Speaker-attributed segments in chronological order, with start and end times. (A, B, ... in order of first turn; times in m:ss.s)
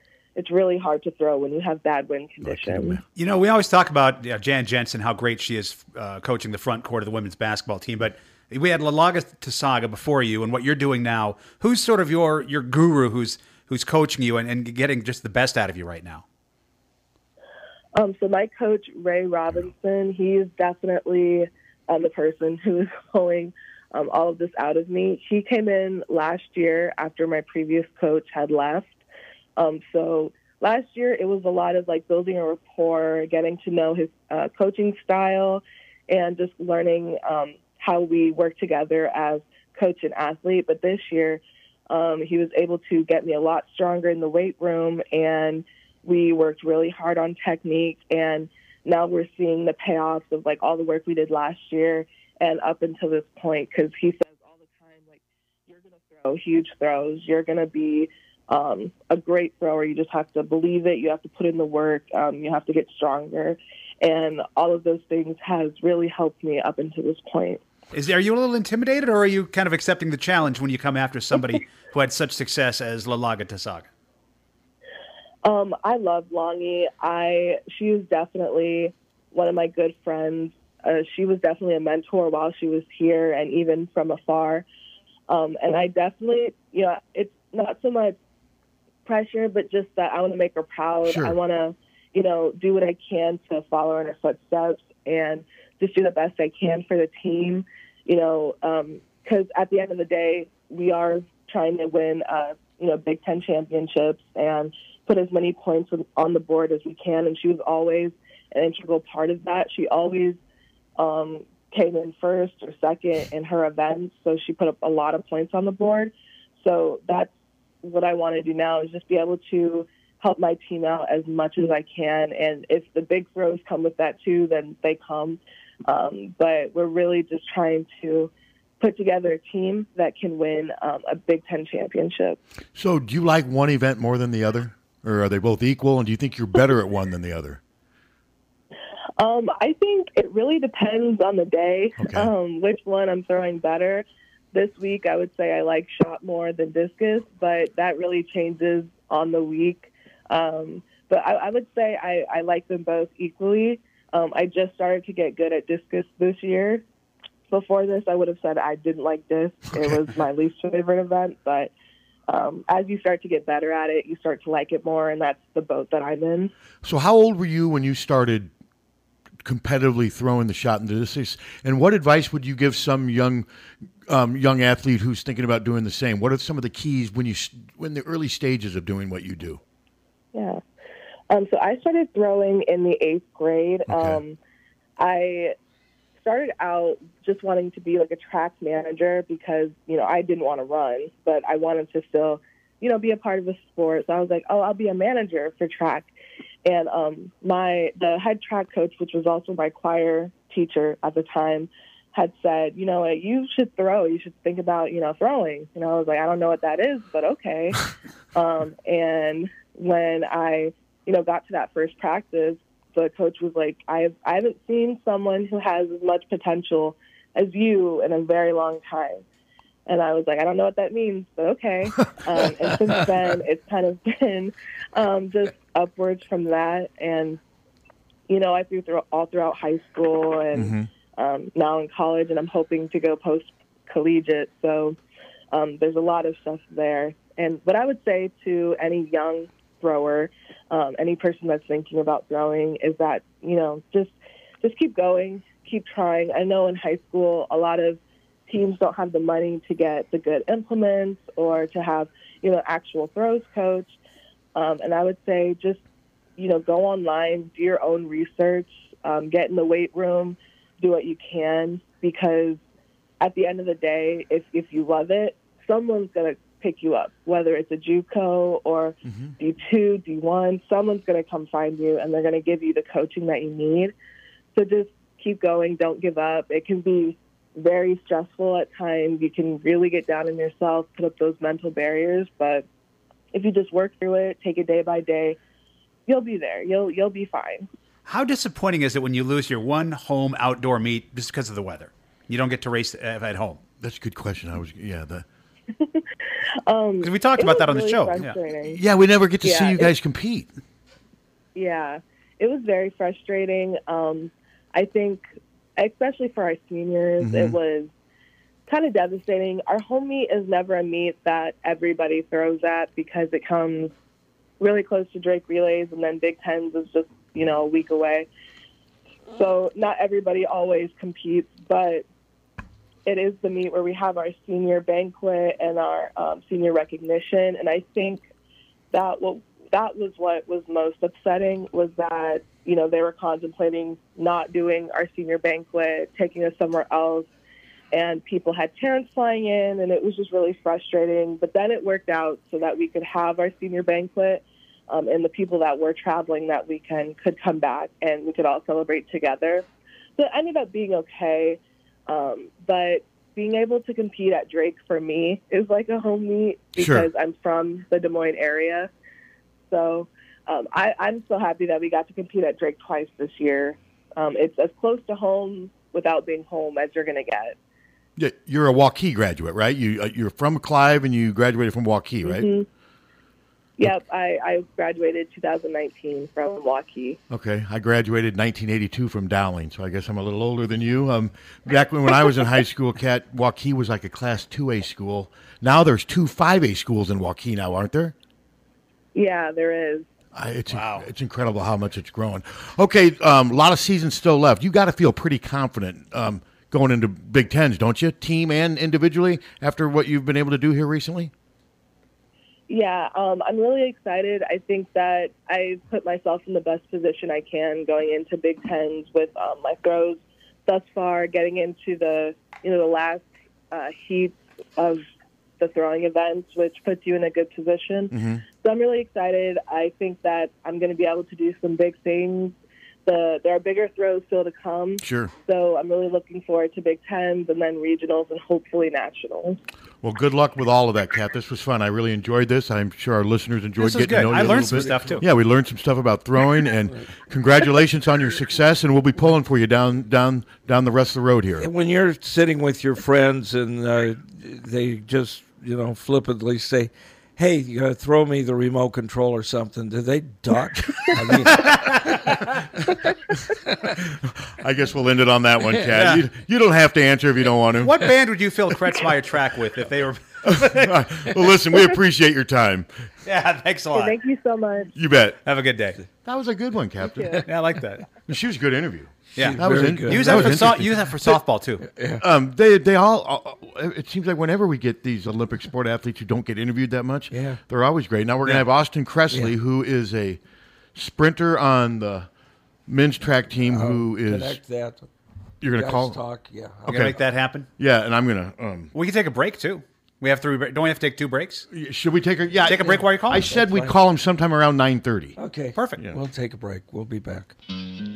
0:00.4-0:03.0 A
0:02.4-0:03.0 B
0:03.1-0:16.2 C
0:17.9-0:29.0 A
0:29.6-1:07.6 A
1:07.9-1:13.9 C
1:15.4-1:24.6 A
1:25.3-1:28.2 A
1:29.0-1:50.4 A
1:31.0-1:31.4 B
1:51.0-1:57.3 A
1:57.8-2:12.4 A
2:12.8-2:17.6 B
2:19.2-2:36.8 A
2:22.0-2:22.3 B
2:37.5-2:41.7 A
2:42.3-2:46.5 A
2:46.8-2:48.5 B
2:49.4-2:53.5 B
2:54.1-2:59.6 B
3:00.3-3:00.6 A
3:01.3-3:04.4 A
3:03.9-3:04.2 B
3:05.0-3:05.5 A
3:06.2-3:16.1 A
3:16.6-3:39.2 A
3:39.9-3:47.4 A
3:48.3-3:55.0 A
3:50.5-3:50.9 B
3:55.5-4:13.9 A
4:14.5-4:15.8 A
4:16.4-4:22.6 A
4:23.2-4:33.9 A
4:29.0-4:29.3 B
4:34.5-4:42.6 A
4:43.3-4:45.4 A
4:46.1-4:47.7 A
4:48.0-4:53.6 C
4:53.8-4:55.2 B
4:55.8-4:56.0 A
4:56.7-4:58.8 A
4:57.0-4:58.4 C
4:58.7-5:00.5 B
4:59.4-4:59.9 A
5:01.5-5:05.2 A
5:05.8-5:07.9 A
5:07.2-5:07.6 B
5:08.7-5:13.9 A
5:14.6-5:18.3 A
5:19.3-5:22.0 A
5:23.0-5:28.2 A
5:28.9-5:37.3 A
5:37.9-5:49.6 A
5:50.2-5:58.9 A
5:56.8-5:57.1 B
5:59.7-6:07.6 A
6:08.2-6:12.5 B
6:12.2-6:12.7 A
6:13.8-6:17.2 A
6:17.3-6:28.1 B
6:29.1-6:30.0 A
6:30.3-6:41.3 B
6:30.7-6:31.0 C
6:42.7-6:55.0 A
6:55.6-7:09.6 A
6:58.1-6:58.4 B
7:05.0-7:05.3 B
7:10.0-7:21.7 B
7:13.8-7:15.2 C
7:21.6-7:32.4 D
7:31.7-7:32.0 C
7:34.1-7:38.1 B
7:35.9-7:36.2 C
7:37.8-7:41.0 C
7:40.4-7:42.9 B
7:43.2-7:44.2 C
7:43.9-7:44.9 A
7:44.9-7:45.4 B
7:45.4-7:46.0 C
7:46.2-7:47.5 B
7:47.5-7:48.1 C
7:48.3-7:51.4 B
7:49.4-7:50.8 D
7:49.4-7:51.8 C
7:51.8-7:52.2 D
7:52.2-8:00.4 B
7:57.3-7:57.6 D
8:00.9-8:02.3 B
8:02.9-8:04.6 B
8:03.6-8:05.1 D
8:05.6-8:06.2 B
8:05.7-8:07.1 D
8:06.9-8:07.2 B
8:06.9-8:07.7 C
8:07.8-8:08.9 B
8:08.9-8:11.6 C
8:11.7-8:15.4 B
8:12.6-8:13.4 C
8:13.3-8:14.0 D
8:15.4-8:17.5 D
8:15.8-8:16.0 C